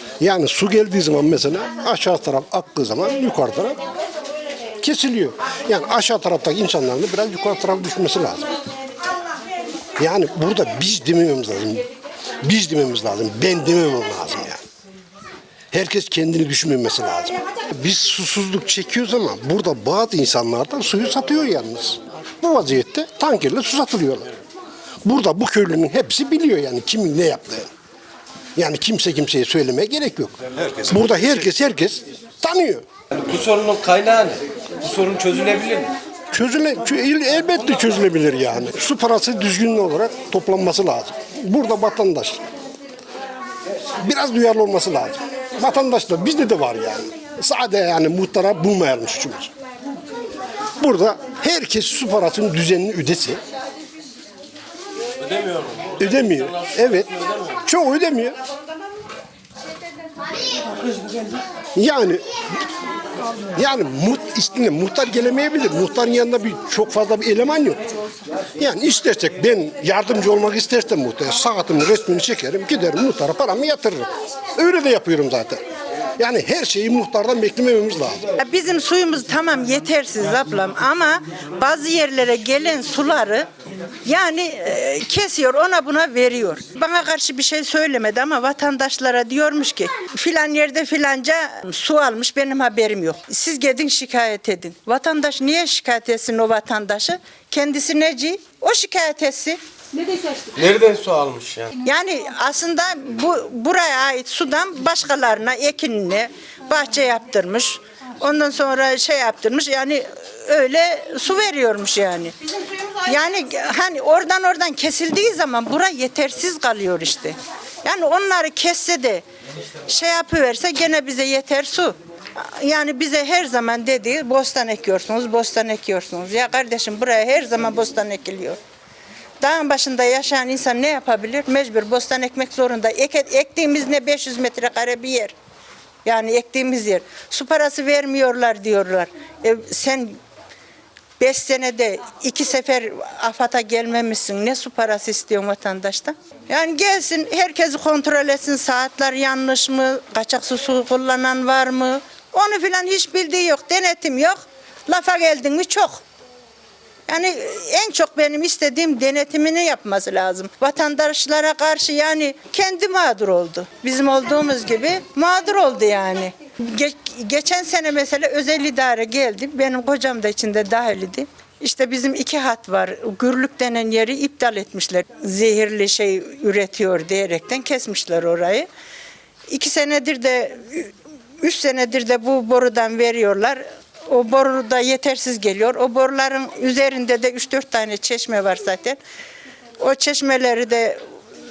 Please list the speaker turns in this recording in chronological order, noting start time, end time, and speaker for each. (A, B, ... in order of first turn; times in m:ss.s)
0:00.2-0:03.8 A
0:04.8-0:08.5 A
0:10.0-0:11.8 A
0:12.4-0:14.6 A
0:15.7-0:24.3 A
0:25.0-0:27.7 A
0:28.6-0:32.8 A
0:33.1-0:35.9 B
0:36.3-0:42.4 A
0:44.0-0:49.5 A
0:50.8-0:53.4 A
0:55.2-0:55.9 B
0:56.0-0:58.4 A
1:01.7-1:02.2 A
1:03.5-1:07.8 A
1:08.6-1:15.6 A
1:16.2-1:18.2 A
1:18.4-1:23.5 C
1:24.0-1:39.6 C
1:40.4-1:41.8 B
1:41.8-1:52.3 C
1:52.9-1:59.2 C
1:59.8-2:08.6 C
2:09.4-2:15.3 C
2:16.0-2:20.2 C
2:21.2-2:36.0 C
2:37.1-2:58.7 C
2:59.5-3:09.0 C
3:09.8-3:11.0 C